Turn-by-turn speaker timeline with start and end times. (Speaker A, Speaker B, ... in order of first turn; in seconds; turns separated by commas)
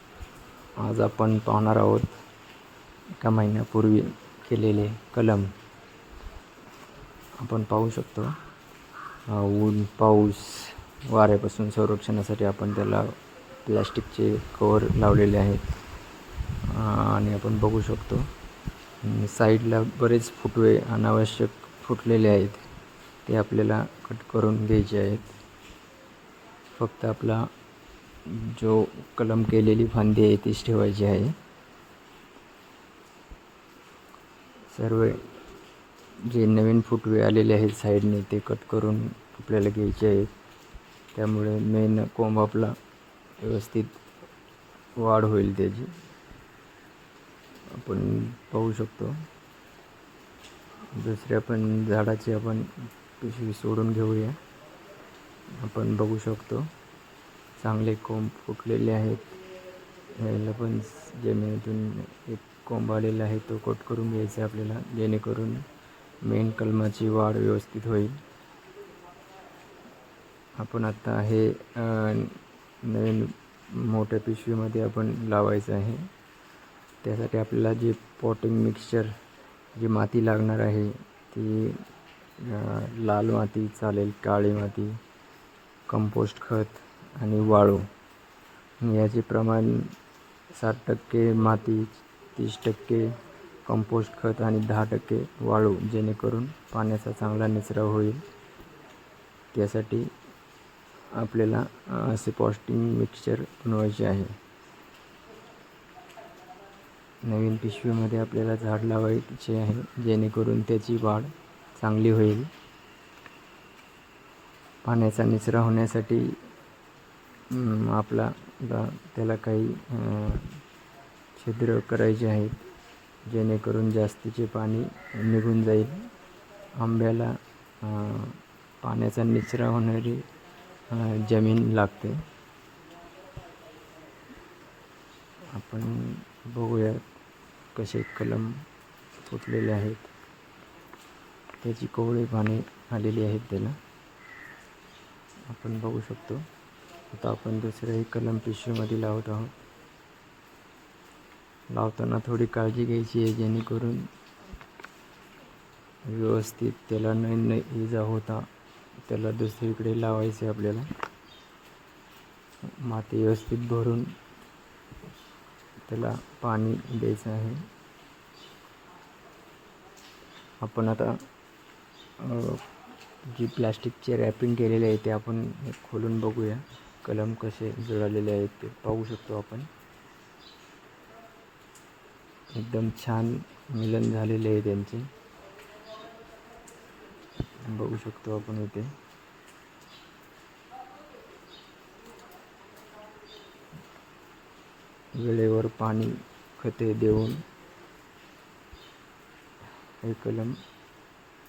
Speaker A: 0.8-2.1, Speaker A: 3.2-5.5, Speaker A: 7.4-8.3, Speaker A: 9.3-15.7, Speaker A: 16.6-18.3, Speaker A: 19.0-22.6, Speaker A: 23.3-25.3, Speaker A: 26.8-27.5, Speaker A: 28.3-31.4, Speaker A: 34.7-35.2, Speaker A: 36.3-40.3, Speaker A: 41.1-42.8, Speaker A: 43.4-44.0, Speaker A: 45.0-45.9, Speaker A: 47.7-49.2, Speaker A: 51.0-54.4, Speaker A: 55.6-56.7, Speaker A: 57.6-59.3, Speaker A: 60.1-65.7, Speaker A: 66.2-68.2, Speaker A: 70.6-76.1, Speaker A: 77.0-79.1, Speaker A: 79.8-81.8, Speaker A: 82.4-85.0, Speaker A: 85.9-87.9, Speaker A: 88.8-89.9, Speaker A: 90.6-98.2, Speaker A: 99.5-100.1, Speaker A: 101.1-104.4, Speaker A: 107.2-112.5, Speaker A: 114.8-116.4, Speaker A: 117.5-120.6, Speaker A: 121.4-122.6, Speaker A: 123.3-126.1, Speaker A: 126.8-130.3, Speaker A: 130.9-132.2, Speaker A: 135.5-137.1, Speaker A: 137.7-138.6, Speaker A: 139.2-140.1, Speaker A: 141.6-143.8, Speaker A: 145.5-146.5, Speaker A: 147.1-149.6, Speaker A: 151.7-154.1, Speaker A: 156.1-158.5, Speaker A: 159.1-160.9, Speaker A: 162.8-164.1, Speaker A: 165.9-167.7, Speaker A: 170.6-171.2, Speaker A: 172.2-172.6, Speaker A: 173.2-179.7, Speaker A: 182.6-185.1, Speaker A: 187.6-188.9, Speaker A: 195.2-197.4, Speaker A: 200.0-200.6